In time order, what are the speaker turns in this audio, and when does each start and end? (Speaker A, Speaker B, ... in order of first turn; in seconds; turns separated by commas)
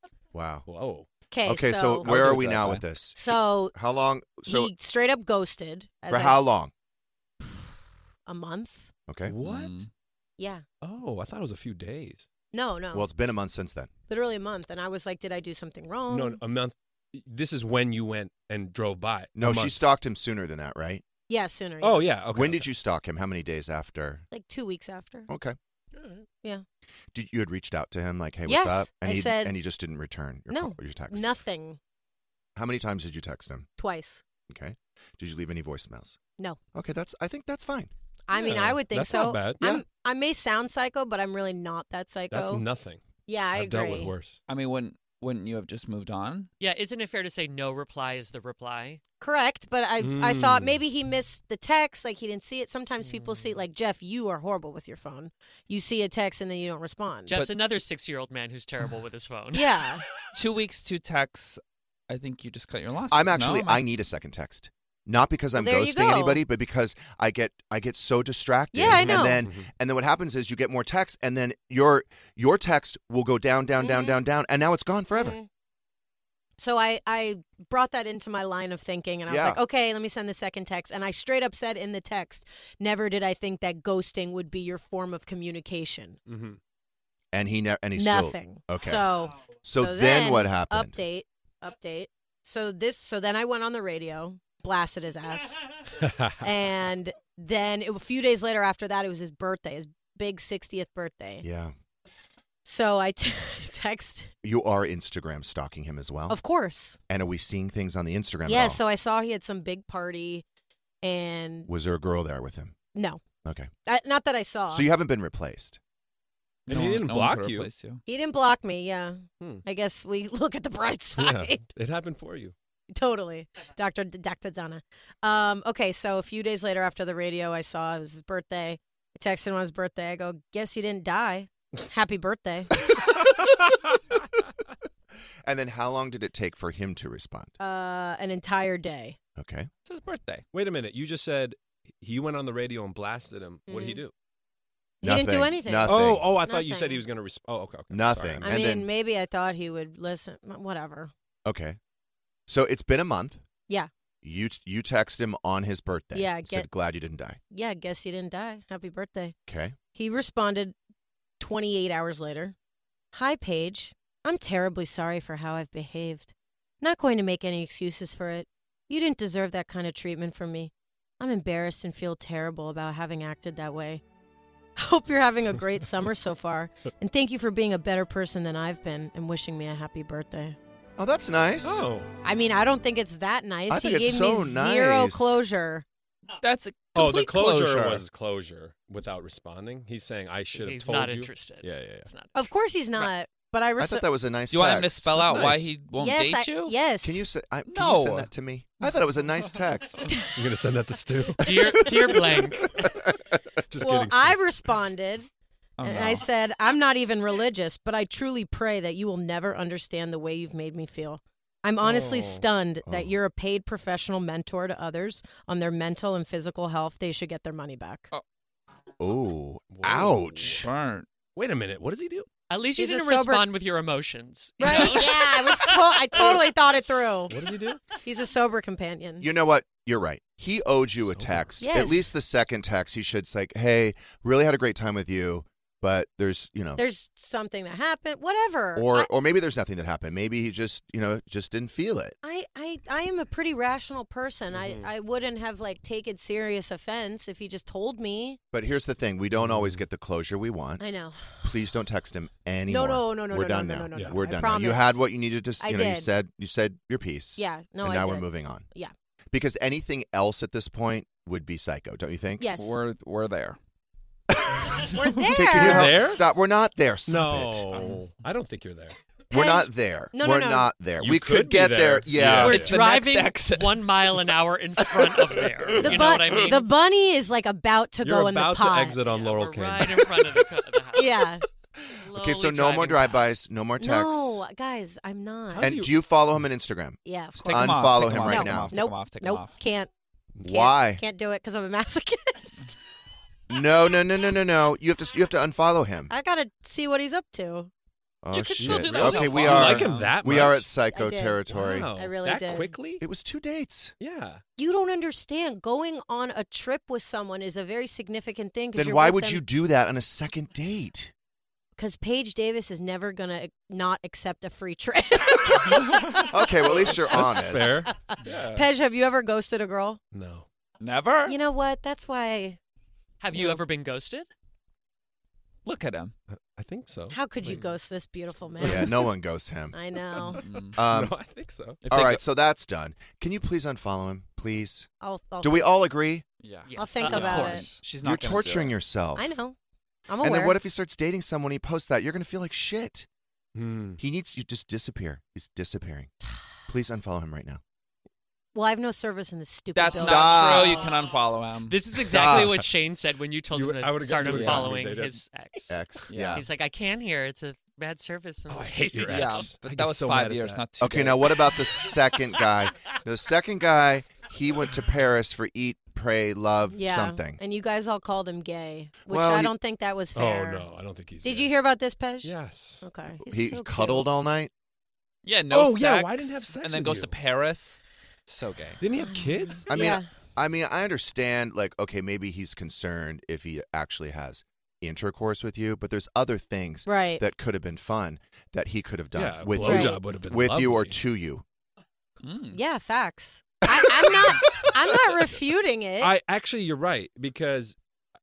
Speaker A: 0.3-0.7, Speaker B: 0.7-1.1, Speaker C: 1.3-2.3, Speaker A: 1.4-4.7, Speaker B: 2.0-2.8, Speaker C: 3.1-3.7, Speaker C: 4.4-6.4, Speaker A: 6.1-6.7, Speaker C: 8.3-8.9, Speaker A: 9.1-9.3, Speaker B: 9.2-9.7, Speaker D: 9.4-9.9, Speaker C: 10.4-10.6, Speaker B: 10.8-12.3, Speaker C: 12.5-13.1, Speaker A: 12.9-13.9, Speaker C: 14.1-16.4, Speaker B: 16.1-19.8, Speaker A: 19.3-21.0, Speaker C: 21.3-22.1, Speaker B: 21.8-22.7, Speaker A: 22.3-24.2, Speaker C: 24.3-25.3, Speaker A: 25.3-25.6, Speaker B: 25.9-26.2, Speaker A: 27.1-31.4, Speaker C: 28.5-29.5, Speaker C: 30.5-31.8, Speaker A: 32.5-33.7, Speaker C: 33.8-34.2, Speaker A: 34.5-36.2, Speaker A: 36.7-37.9, Speaker C: 38.3-42.6, Speaker B: 38.3-39.6, Speaker B: 42.3-43.0, Speaker C: 43.2-44.1, Speaker B: 43.5-44.4, Speaker D: 44.5-46.5, Speaker E: 46.6-49.0, Speaker C: 49.2-57.3, Speaker B: 50.0-50.8, Speaker E: 57.3-59.8, Speaker C: 59.5-60.0, Speaker D: 60.3-63.8, Speaker A: 63.1-75.4, Speaker C: 65.5-66.4, Speaker C: 68.7-69.4, Speaker B: 68.9-69.7, Speaker C: 73.8-74.2, Speaker C: 75.1-75.5, Speaker C: 76.6-86.2, Speaker A: 79.3-79.6, Speaker B: 86.3-86.6, Speaker A: 87.3-91.0, Speaker C: 87.9-95.6, Speaker B: 96.0-96.5, Speaker C: 96.4-101.5, Speaker A: 101.4-101.7, Speaker C: 102.6-104.3, Speaker A: 104.4-106.4, Speaker C: 106.3-107.0, Speaker A: 107.1-108.8, Speaker C: 108.5-110.4, Speaker C: 111.0-111.7, Speaker A: 111.7-112.8, Speaker C: 112.9-113.2, Speaker A: 113.4-113.7, Speaker C: 113.8-114.9, Speaker A: 114.7-115.8, Speaker B: 116.7-117.7, Speaker D: 116.7-118.0, Speaker C: 118.1-121.6, Speaker B: 121.2-122.5, Speaker C: 122.9-132.7, Speaker A: 135.4-137.5, Speaker C: 137.6-139.2, Speaker A: 139.4-139.7, Speaker D: 139.9-140.4, Speaker B: 140.5-144.1, Speaker C: 143.7-144.0, Speaker C: 145.0-147.0, Speaker A: 145.0-146.3, Speaker B: 145.8-148.6, Speaker A: 147.9-148.9, Speaker C: 148.4-151.1, Speaker A: 151.4-151.8, Speaker A: 152.5-153.4, Speaker A: 154.2-157.4, Speaker C: 156.1-156.7, Speaker C: 157.5-159.3, Speaker A: 159.5-159.8, Speaker C: 159.9-160.8, Speaker C: 161.4-162.5, Speaker C: 163.1-174.0, Speaker C: 174.8-180.6, Speaker A: 181.0-181.8, Speaker B: 181.6-182.1, Speaker C: 182.2-185.8, Speaker A: 183.7-185.4, Speaker D: 186.4-188.0, Speaker B: 186.9-192.1, Speaker E: 190.5-192.5, Speaker C: 192.3-194.1, Speaker A: 193.8-195.6, Speaker D: 194.5-196.8, Speaker B: 195.2-195.7, Speaker C: 196.0-197.3, Speaker A: 197.0-200.0, Speaker D: 197.7-198.3, Speaker C: 200.1-200.3, Speaker B: 200.3-202.6, Speaker E: 201.4-202.8, Speaker B: 203.7-204.4, Speaker C: 203.8-205.3, Speaker D: 205.8-206.3, Speaker C: 205.8-218.1, Speaker B: 211.8-212.4, Speaker A: 212.8-213.1, Speaker A: 219.0-220.7, Speaker B: 219.7-220.6, Speaker D: 220.5-221.1, Speaker B: 221.3-222.3, Speaker E: 222.5-225.7, Speaker C: 222.8-223.4, Speaker C: 224.6-227.3, Speaker D: 224.6-225.1, Speaker B: 227.3-227.8, Speaker C: 227.9-229.3, Speaker A: 229.2-236.8, Speaker B: 231.1-231.5, Speaker C: 231.6-232.1, Speaker C: 236.8-239.1, Speaker A: 238.7-242.2, Speaker C: 242.2-248.4, Speaker B: 244.5-244.9, Speaker A: 248.5-250.8, Speaker B: 249.3-249.8, Speaker C: 250.8-251.4, Speaker A: 251.4-258.6, Speaker C: 252.7-255.0, Speaker C: 255.6-256.1, Speaker C: 257.4-258.9, Speaker A: 259.3-262.5, Speaker C: 262.4-262.8, Speaker D: 262.5-263.6, Speaker C: 264.9-266.0, Speaker A: 265.3-267.6, Speaker B: 265.6-266.2, Speaker B: 267.1-269.0, Speaker D: 267.7-268.0, Speaker C: 269.3-270.7, Speaker A: 269.3-272.7, Speaker B: 271.0-272.8, Speaker D: 272.4-274.3, Speaker E: 272.4-276.7, Speaker C: 275.8-279.0, Speaker B: 278.0-280.5, Speaker E: 279.1-283.4, Speaker C: 280.9-281.4, Speaker A: 282.1-284.4, Speaker C: 283.8-285.7, Speaker B: 285.5-285.9, Speaker A: 285.6-288.8, Speaker C: 287.0-289.9, Speaker D: 287.4-289.6, Speaker A: 290.4-291.0, Speaker C: 290.4-292.8, Speaker A: 293.5-296.1, Speaker C: 296.1-297.7, Speaker A: 298.2-301.9, Speaker D: 298.3-300.5, Speaker B: 298.6-300.7, Speaker C: 300.9-302.7, Speaker B: 301.5-303.0, Speaker A: 303.0-303.9, Speaker B: 304.0-304.4, Speaker C: 304.6-309.4, Speaker A: 308.7-311.1, Speaker C: 311.8-317.4, Speaker A: 316.1-317.9, Speaker B: 317.1-318.6, Speaker C: 317.9-320.0, Speaker B: 320.1-320.5, Speaker D: 320.8-321.4, Speaker C: 321.2-322.6, Speaker E: 323.2-324.3, Speaker C: 323.3-323.6, Speaker D: 325.6-326.1, Speaker B: 326.3-327.7, Speaker C: 327.1-329.1, Speaker B: 328.6-328.9, Speaker A: 328.6-329.8, Speaker C: 329.7-330.4, Speaker D: 330.4-330.8, Speaker A: 330.7-331.1, Speaker B: 330.8-331.8, Speaker D: 331.8-332.2, Speaker A: 331.9-334.9, Speaker C: 335.0-335.7, Speaker A: 335.4-336.2, Speaker D: 336.4-338.7, Speaker E: 336.7-337.7, Speaker C: 336.8-337.7, Speaker B: 337.2-338.4, Speaker A: 338.0-339.3, Speaker C: 339.1-339.6, Speaker C: 340.1-340.6, Speaker A: 340.2-343.1, Speaker B: 343.5-344.0, Speaker A: 344.0-346.1, Speaker A: 346.7-347.6, Speaker C: 348.5-350.9, Speaker D: 349.7-351.8, Speaker A: 349.9-350.8, Speaker E: 350.6-351.1, Speaker E: 351.7-359.5, Speaker A: 352.1-352.6, Speaker B: 353.5-355.7, Speaker D: 354.2-354.8, Speaker A: 355.7-356.4, Speaker D: 356.1-356.4, Speaker B: 358.5-360.6, Speaker D: 359.1-361.5, Speaker A: 360.8-367.4, Speaker C: 366.7-370.7, Speaker A: 369.1-369.5, Speaker B: 370.1-371.5, Speaker C: 371.2-374.1, Speaker B: 372.2-372.9, Speaker A: 373.2-374.5, Speaker D: 375.2-378.8, Speaker B: 375.5-377.1, Speaker B: 378.8-379.7, Speaker C: 379.1-380.1, Speaker A: 379.7-391.4, Speaker C: 386.9-387.2, Speaker B: 389.1-391.0, Speaker C: 389.6-390.0, Speaker D: 392.2-392.6, Speaker C: 392.5-396.1, Speaker B: 396.0-397.8